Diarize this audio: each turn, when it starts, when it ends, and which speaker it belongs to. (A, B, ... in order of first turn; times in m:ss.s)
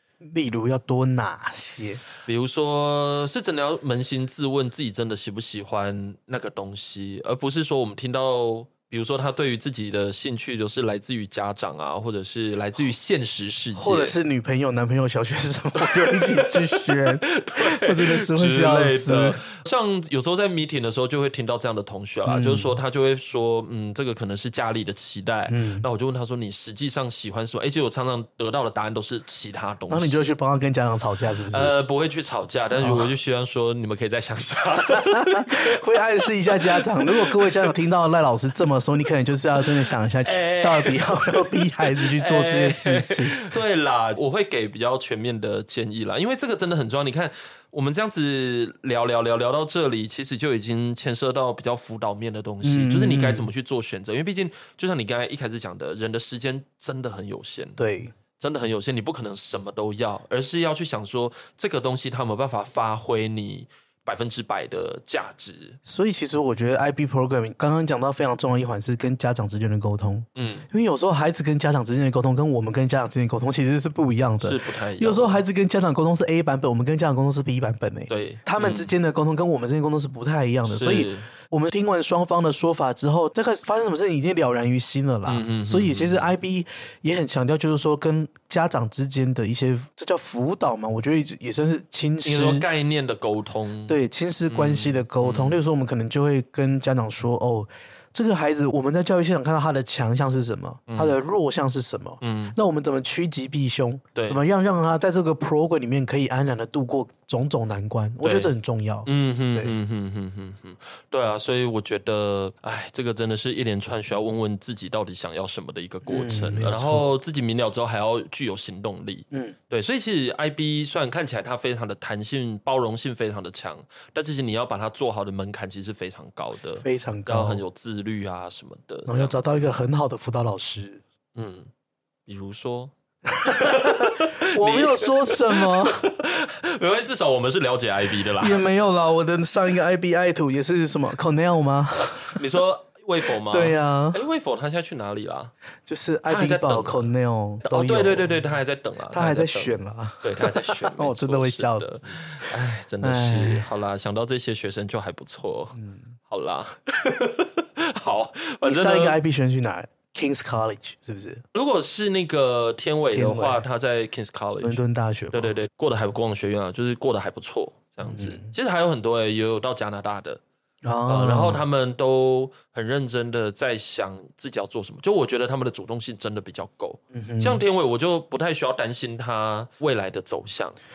0:00.2-0:02.0 A
0:02.3-0:14.1 B
0:13.8-0:19.4 A
0:15.8-0:30.2 B
0:22.3-0:22.8 A
0:25.5-0:25.9 A
0:29.9-0:31.7 A
0:31.5-0:37.7 B
0:32.8-0:33.1 A
0:34.9-0:43.4 A
0:40.2-0:57.8 B
0:52.6-0:53.5 A
0:57.8-0:58.1 A
0:58.4-1:05.8 B
1:05.8-1:32.7 A
1:10.4-1:10.7 B
1:14.4-1:15.4 B
1:18.1-1:18.9 B
1:20.7-1:21.3 B
1:25.3-1:26.3 B
1:32.2-1:35.6 B
1:33.9-1:49.8 A
1:40.9-1:41.1 B
1:42.2-1:42.6 B
1:44.1-1:44.4 B
1:48.2-1:48.5 B
1:49.1-2:09.7 B
1:56.1-1:57.0 A
1:59.3-1:59.6 A
2:06.8-2:07.6 A
2:09.1-2:11.0 A
2:11.4-2:11.7 B
2:12.3-2:18.6 B
2:13.4-2:16.0 A
2:18.4-2:22.4 A
2:22.2-2:25.5 B
2:23.5-2:24.2 A
2:25.9-2:28.4 A
2:26.3-2:27.1 B
2:27.6-2:39.2 B
2:29.1-2:31.9 A
2:33.0-2:33.7 A
2:35.8-2:36.1 A
2:38.6-2:41.4 A
2:41.5-2:44.8 B
2:43.1-2:43.6 A
2:44.6-2:45.5 A
2:45.3-2:50.4 B
2:48.1-2:48.5 A
2:50.8-2:51.6 A
2:51.1-3:00.8 B
2:57.1-2:57.6 A